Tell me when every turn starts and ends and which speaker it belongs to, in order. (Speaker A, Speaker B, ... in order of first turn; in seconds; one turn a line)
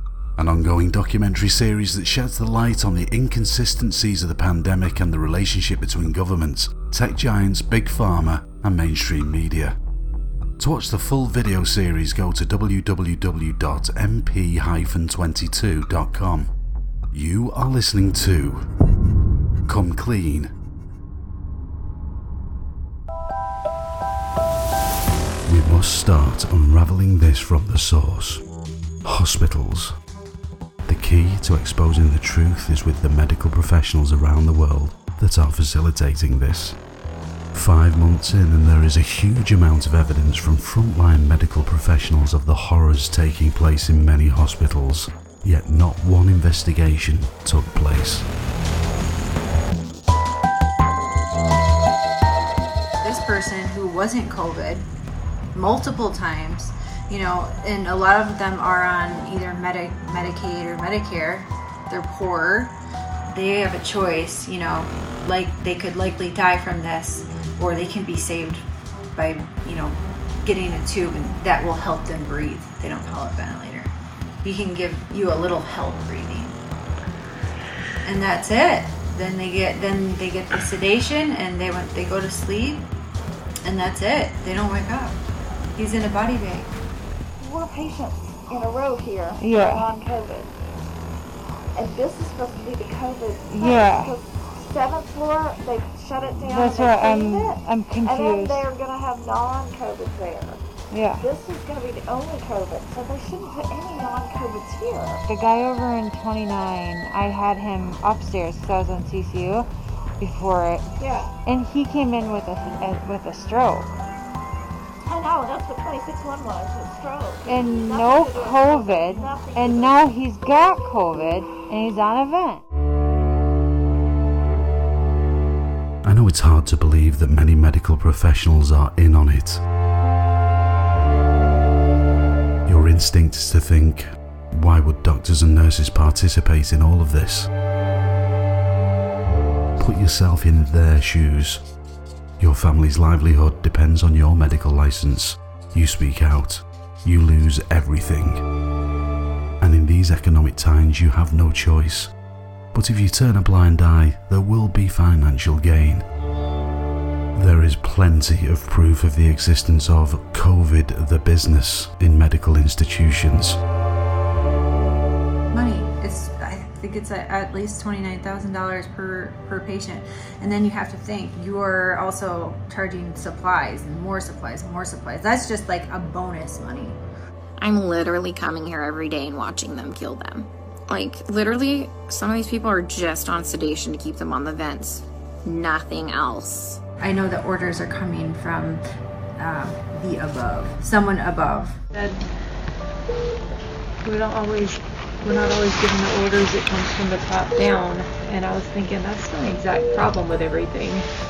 Speaker A: 0.4-9.8
Speaker A: 10.6-16.5
Speaker A: 17.1-18.7
Speaker A: 19.7-20.5
Speaker A: 25.5-28.4
Speaker A: 29.1-29.9
Speaker A: 30.9-36.8
Speaker A: 37.5-48.3
Speaker B: 53.0-54.9
Speaker B: 55.5-62.8
Speaker B: 63.3-68.6
Speaker B: 69.2-73.9
Speaker B: 74.4-76.6
Speaker B: 78.0-82.9
Speaker B: 83.6-85.2
Speaker B: 85.8-86.7
Speaker C: 87.4-90.5
Speaker D: 89.4-89.9
Speaker C: 91.8-100.6
Speaker D: 93.5-94.2
Speaker D: 96.4-98.7
Speaker D: 100.9-101.3
Speaker C: 101.2-105.2
Speaker D: 105.3-109.7
Speaker D: 110.2-110.9
Speaker C: 111.0-111.3
Speaker D: 111.4-113.9
Speaker C: 115.0-120.1
Speaker D: 117.5-122.6
Speaker A: 126.0-129.6
Speaker A: 132.7-137.5
Speaker A: 139.8-141.6
Speaker A: 142.4-148.4
Speaker A: 149.6-152.1
Speaker A: 152.7-156.1
Speaker A: 157.3-163.6
Speaker B: 165.5-177.0
Speaker E: 177.6-186.8
Speaker B: 187.0-188.8
Speaker B: 189.4-191.8
Speaker F: 191.9-192.3
Speaker F: 194.0-201.1